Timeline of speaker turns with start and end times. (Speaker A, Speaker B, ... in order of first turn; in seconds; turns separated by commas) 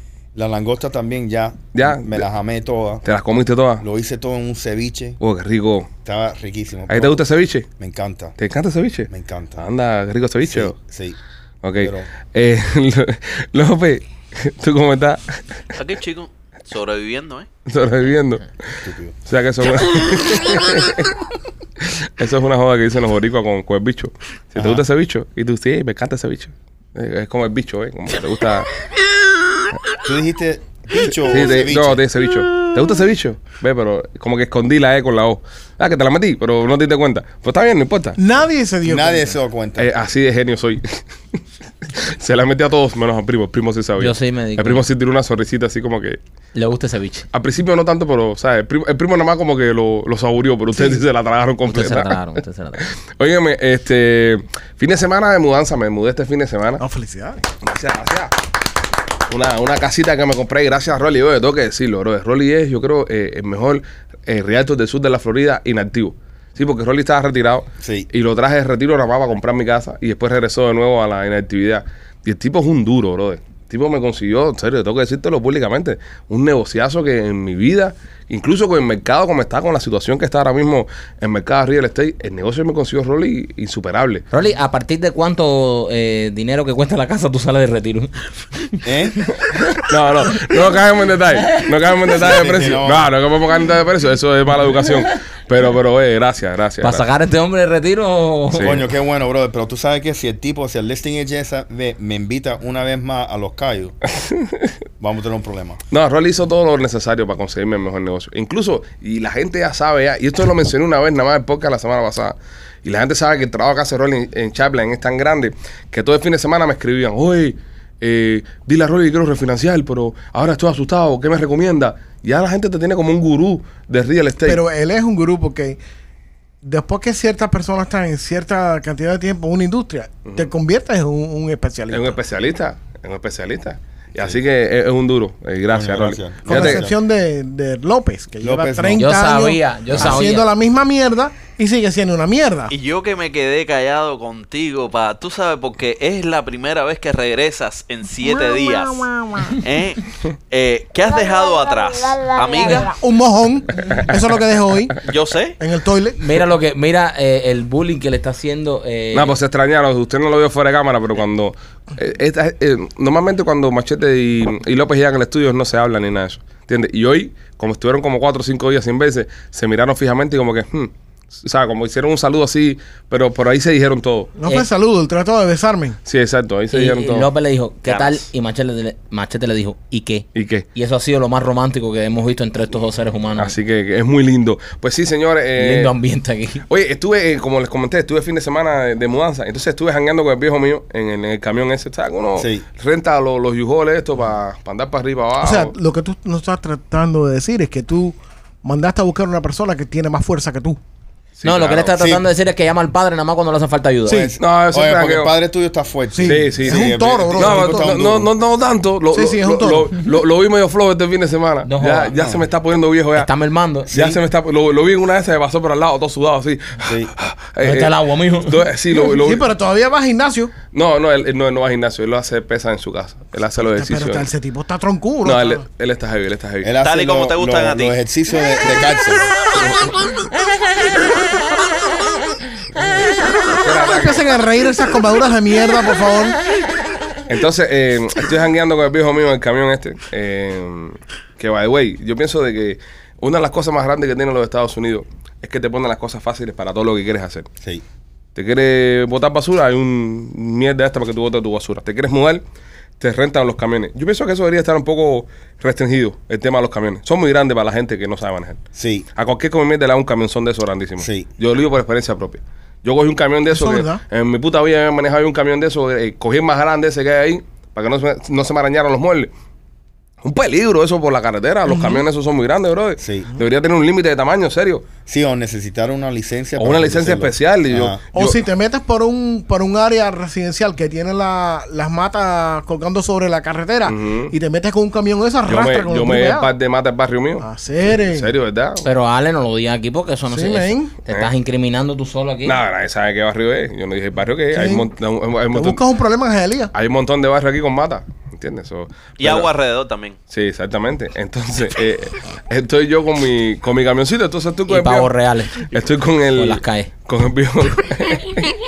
Speaker A: 0.3-3.0, Speaker B: 1.7-2.3, Speaker B: 3.0-3.8, Speaker A: 3.8-5.2, Speaker B: 5.2-5.9, Speaker A: 6.0-7.2, Speaker B: 6.9-7.7, Speaker A: 7.8-8.4, Speaker B: 8.4-10.8, Speaker A: 9.1-9.7, Speaker A: 10.4-11.2, Speaker B: 11.6-15.6, Speaker A: 11.8-12.1, Speaker C: 15.7-17.5, Speaker B: 17.7-18.7, Speaker A: 18.8-19.2, Speaker B: 19.3-21.2, Speaker B: 21.8-28.7, Speaker A: 24.6-24.8, Speaker A: 30.0-32.0, Speaker B: 31.3-38.2, Speaker D: 38.2-39.4, Speaker A: 38.8-39.9, Speaker B: 39.8-41.0, Speaker B: 41.9-46.2, Speaker E: 44.0-44.8, Speaker E: 46.5-47.3, Speaker B: 47.3-52.2, Speaker E: 51.7-52.9, Speaker B: 52.8-56.8, Speaker D: 56.8-57.4, Speaker B: 57.6-58.3, Speaker B: 59.3-84.2, Speaker A: 67.8-68.1, Speaker E: 84.3-88.8, Speaker A: 88.8-89.2, Speaker B: 89.8-97.0, Speaker A: 92.1-93.1, Speaker E: 96.8-98.7, Speaker B: 98.5-98.8, Speaker A: 98.6-104.0, Speaker B: 104.1-104.7, Speaker A: 105.0-105.8, Speaker B: 105.9-124.6, Speaker D: 124.5-125.8, Speaker D: 126.6-132.2, Speaker B: 131.9-136.9, Speaker A: 135.7-137.0, Speaker D: 136.5-142.7, Speaker A: 138.4-139.1, Speaker E: 139.0-140.5, Speaker C: 142.7-152.9, Speaker D: 152.7-155.0, Speaker C: 155.0-155.6, Speaker D: 155.6-156.2, Speaker E: 156.2-159.3, Speaker B: 159.1-174.3, Speaker D: 174.4-176.0, Speaker B: 176.1-177.3, Speaker E: 176.7-183.5, Speaker C: 177.9-178.2, Speaker B: 180.3-180.7, Speaker B: 183.4-185.9, Speaker E: 185.6-186.6, Speaker B: 186.7-195.7, Speaker A: 192.4-192.7, Speaker D: 195.4-200.8, Speaker B: 201.4-202.2, Speaker E: 201.4-204.3, Speaker A: 204.1-208.3, Speaker D: 204.1-204.3, Speaker B: 204.4-205.3, Speaker D: 206.2-207.9, Speaker B: 206.2-213.3, Speaker D: 209.1-209.9, Speaker E: 211.7-212.4, Speaker E: 213.2-213.9, Speaker A: 213.9-214.2, Speaker B: 213.9-219.5, Speaker A: 216.8-217.1, Speaker E: 217.6-218.7, Speaker D: 219.2-220.5, Speaker B: 220.7-224.3, Speaker D: 223.6-225.6, Speaker B: 225.2-226.7, Speaker A: 226.6-229.3, Speaker C: 226.8-227.9, Speaker B: 229.6-230.1, Speaker B: 233.5-234.3, Speaker D: 233.8-236.4, Speaker B: 237.3-247.5, Speaker B: 248.3-252.4, Speaker B: 253.0-258.6, Speaker A: 258.8-259.1, Speaker B: 259.2-269.3, Speaker A: 261.0-261.3, Speaker D: 263.5-264.0, Speaker B: 270.2-274.9, Speaker D: 271.7-272.0, Speaker A: 273.0-273.3, Speaker A: 275.1-278.0, Speaker B: 276.6-278.4, Speaker D: 278.1-286.5, Speaker B: 283.9-284.3, Speaker B: 285.5-288.9, Speaker D: 287.4-288.3, Speaker E: 288.8-292.6, Speaker D: 290.3-290.9, Speaker B: 292.4-295.8, Speaker D: 294.5-294.9, Speaker D: 295.5-296.7, Speaker B: 296.7-299.5, Speaker C: 299.2-300.2, Speaker B: 300.3-308.5, Speaker E: 304.7-305.7, Speaker E: 306.4-306.9